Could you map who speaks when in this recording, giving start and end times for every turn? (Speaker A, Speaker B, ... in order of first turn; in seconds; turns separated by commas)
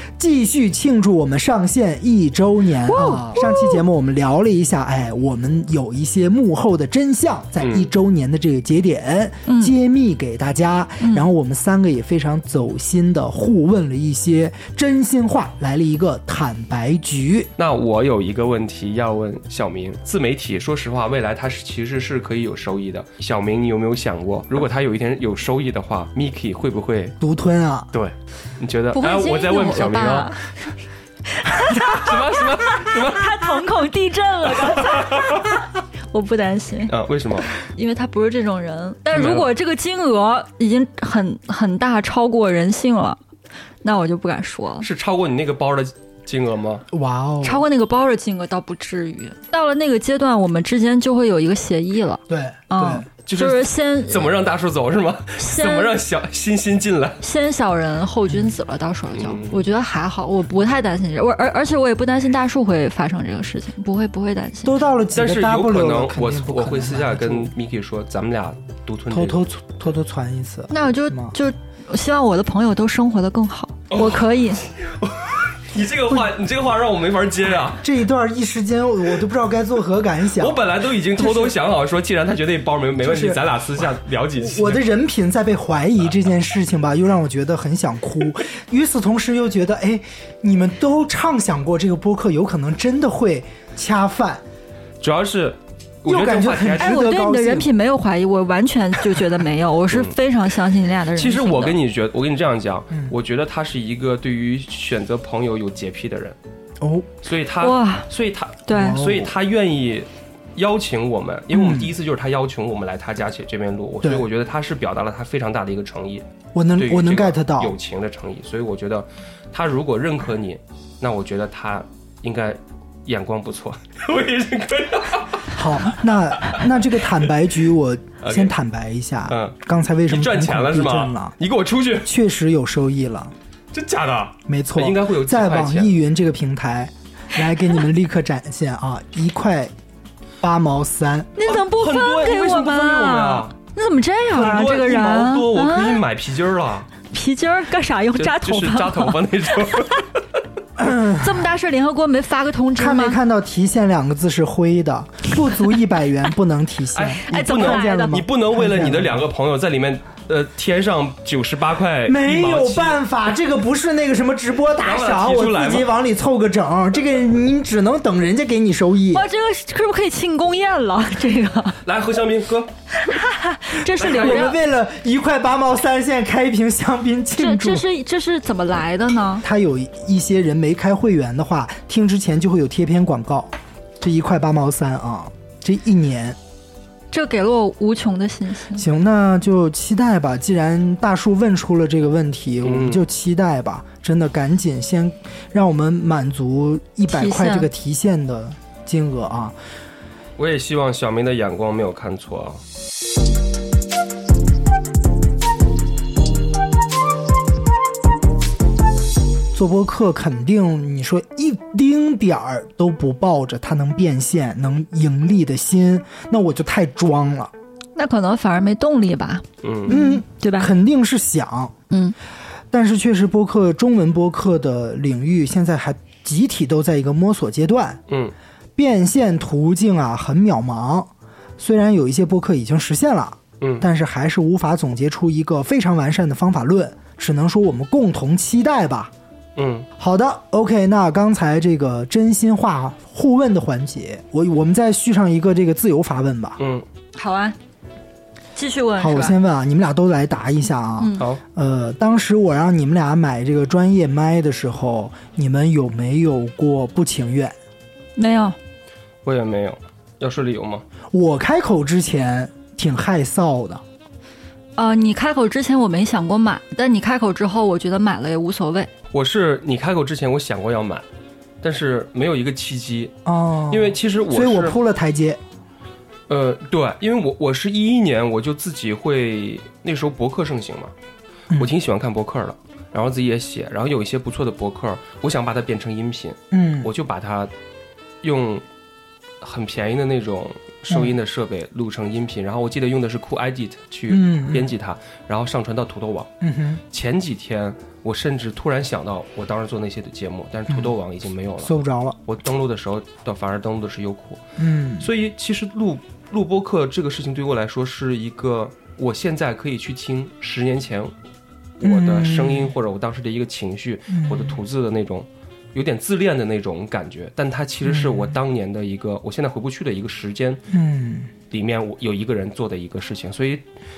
Speaker A: 0.2-17.5, Speaker B: 2.8-3.8, Speaker C: 7.6-7.9, Speaker B: 9.5-9.7, Speaker B: 11.0-11.3, Speaker C: 17.6-27.2, Speaker A: 27.2-27.9, Speaker C: 27.9-30.4, Speaker B: 28.9-30.8, Speaker B: 31.3-36.9, Speaker C: 31.6-33.5, Speaker C: 34.6-35.5, Speaker C: 36.9-37.5, Speaker B: 37.5-43.2, Speaker C: 39.1-39.5, Speaker B: 43.8-44.9, Speaker C: 44.8-46.8, Speaker A: 46.9-47.7, Speaker B: 47.4-54.3, Speaker A: 52.3-53.1, Speaker C: 53.3-57.2, Speaker B: 55.4-56.0, Speaker B: 57.2-64.8, Speaker C: 59.1-59.6, Speaker A: 64.7-67.5, Speaker C: 65.1-69.4, Speaker A: 69.1-71.3, Speaker B: 70.7-74.7, Speaker C: 73.9-77.8, Speaker A: 77.8-80.6, Speaker C: 80.4-84.8, Speaker A: 81.2-81.6, Speaker A: 83.0-83.4, Speaker A: 84.4-94.4, Speaker C: 95.0-97.0, Speaker A: 96.1-97.7, Speaker B: 96.8-101.8, Speaker C: 101.2-106.4, Speaker A: 106.8-107.1, Speaker C: 107.2-116.2, Speaker B: 107.6-108.1, Speaker B: 108.7-109.0, Speaker A: 108.8-109.3, Speaker A: 111.5-111.9, Speaker A: 114.0-114.3, Speaker A: 116.5-117.8, Speaker C: 116.8-125.6, Speaker A: 125.5-131.4, Speaker C: 128.2-128.5, Speaker C: 129.3-129.6, Speaker C: 130.1-132.1, Speaker A: 132.1-133.3, Speaker C: 133.7-135.9, Speaker A: 134.5-139.7, Speaker A: 140.4-141.3, Speaker B: 141.4-146.0, Speaker C: 141.5-143.5, Speaker C: 144.3-146.9, Speaker B: 147.1-149.2, Speaker C: 148.2-150.2, Speaker A: 150.8-151.5, Speaker B: 150.9-153.2, Speaker A: 152.8-159.2, Speaker C: 156.9-163.0, Speaker B: 157.2-158.2, Speaker A: 162.1-169.3, Speaker C: 164.8-165.9, Speaker B: 169.1-171.8, Speaker C: 171.8-172.7, Speaker B: 172.9-174.6, Speaker A: 173.9-177.8, Speaker C: 174.0-174.6, Speaker B: 177.4-179.4, Speaker A: 179.4-186.4, Speaker B: 187.1-188.9, Speaker A: 188.8-199.6, Speaker C: 192.6-193.0, Speaker B: 197.1-197.7, Speaker C: 200.4-202.6, Speaker A: 209.5-217.5, Speaker B: 218.0-220.7, Speaker C: 219.6-219.9, Speaker A: 219.9-221.7, Speaker B: 221.9-222.2, Speaker A: 222.7-228.0, Speaker C: 228.1-228.3, Speaker A: 228.8-239.1, Speaker C: 233.6-233.9, Speaker C: 239.6-239.9, Speaker A: 240.0-246.6, Speaker C: 246.6-246.8, Speaker B: 247.1-247.6, Speaker B: 248.6-249.4, Speaker A: 249.0-257.6, Speaker B: 251.0-251.2, Speaker B: 258.2-258.6, Speaker C: 259.2-260.8, Speaker A: 261.1-263.8, Speaker B: 264.8-268.9, Speaker C: 269.1-271.1, Speaker C: 271.6-273.1, Speaker A: 273.2-275.4, Speaker C: 273.7-274.8, Speaker C: 276.3-280.9, Speaker C: 281.6-287.5, Speaker A: 286.5-286.9, Speaker C: 288.2-288.6, Speaker C: 289.4-296.3, Speaker A: 290.9-291.1, Speaker A: 294.1-294.7, Speaker A: 296.4-296.8, Speaker C: 296.9-301.7, Speaker A: 301.6-302.2, Speaker C: 302.3-304.4, Speaker A: 304.6-305.1, Speaker C: 305.0-311.1, Speaker C: 311.8-320.6, Speaker A: 311.8-312.7, Speaker A: 314.1-314.6, Speaker A: 317.8-318.3, Speaker A: 320.7-321.3, Speaker C: 321.5-323.6